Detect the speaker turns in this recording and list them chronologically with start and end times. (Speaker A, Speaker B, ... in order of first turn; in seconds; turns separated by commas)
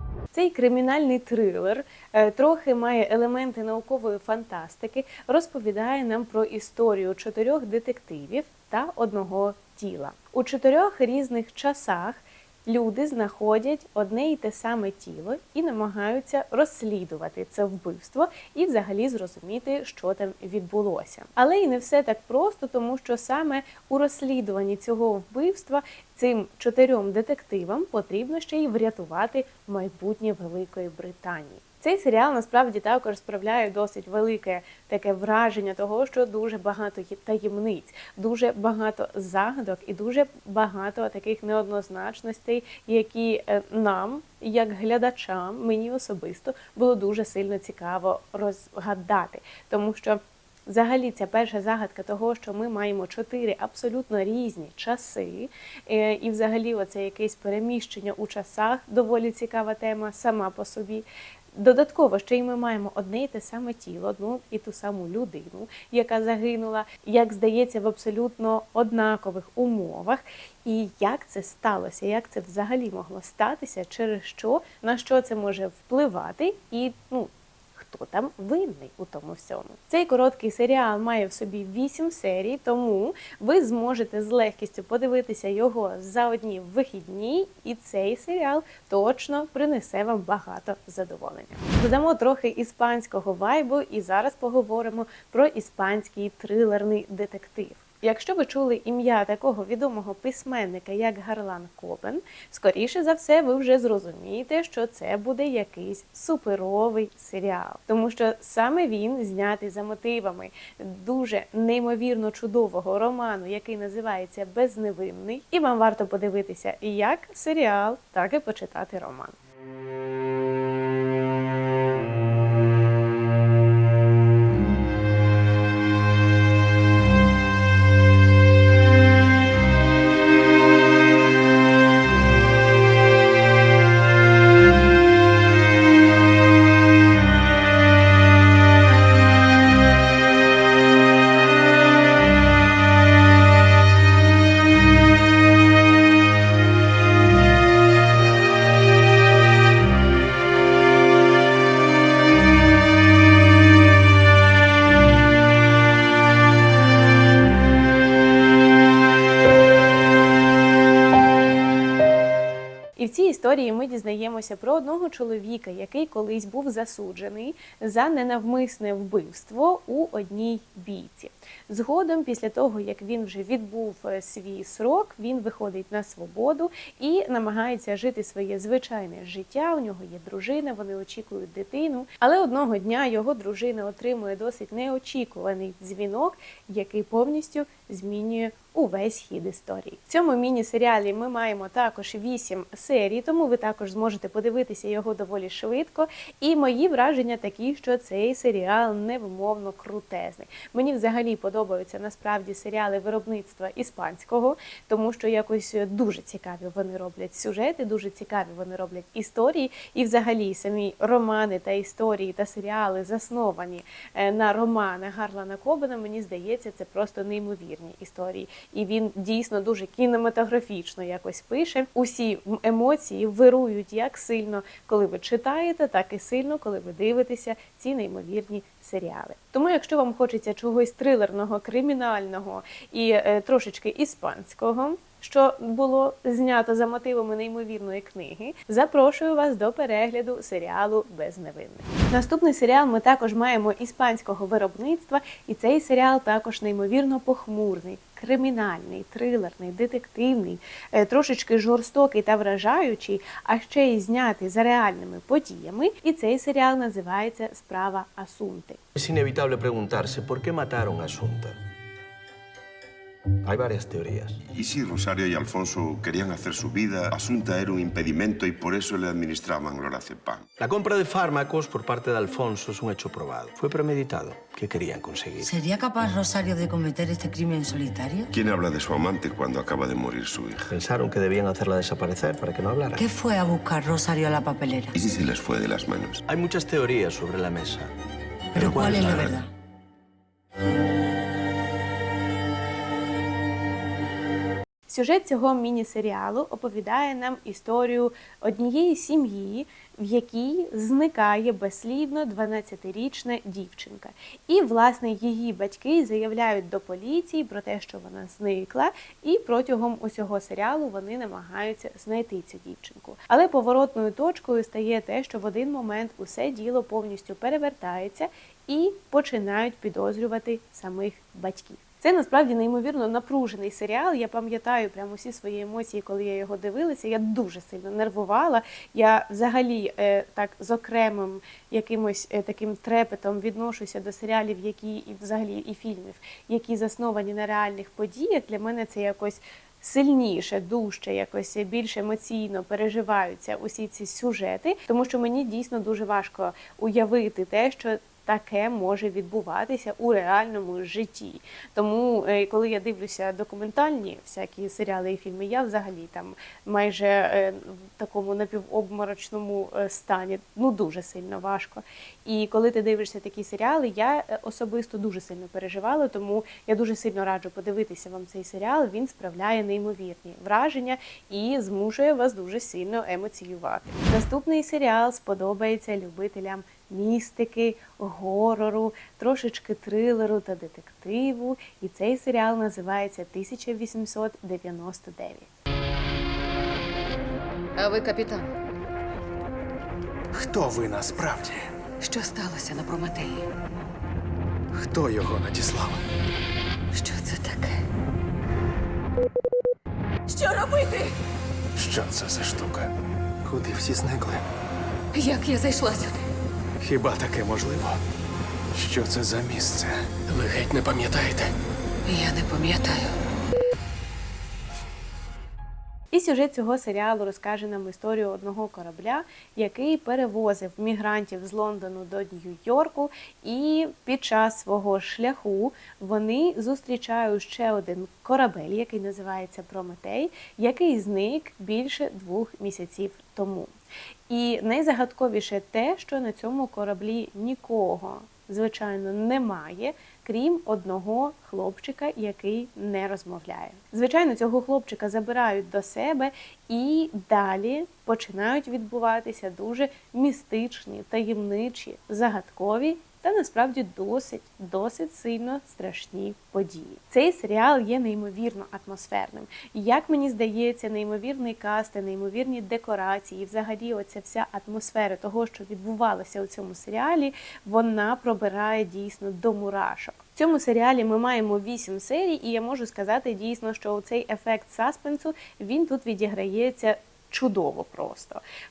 Speaker A: 0.3-119.3, Speaker A: 163.0-258.8, Speaker B: 258.9-261.6, Speaker B: 263.4-264.4, Speaker C: 264.5-270.5, Speaker B: 270.6-275.5, Speaker D: 275.4-278.3, Speaker C: 278.3-280.6, Speaker B: 280.6-283.0, Speaker D: 283.0-284.9, Speaker C: 284.9-286.2, Speaker B: 286.3-287.9, Speaker D: 288.5-289.5, Speaker B: 288.6-289.4, Speaker A: 294.9-385.5, Speaker E: 387.8-388.5, Speaker F: 390.3-391.7, Speaker E: 392.0-393.4, Speaker F: 394.7-396.0, Speaker E: 396.9-397.8, Speaker E: 400.3-401.1, Speaker F: 401.8-402.9, Speaker F: 403.4-404.5, Speaker E: 405.1-406.2, Speaker F: 406.8-408.0, Speaker F: 408.7-411.5, Speaker E: 412.1-413.1, Speaker A: 416.1-433.7, Speaker A: 434.3-478.4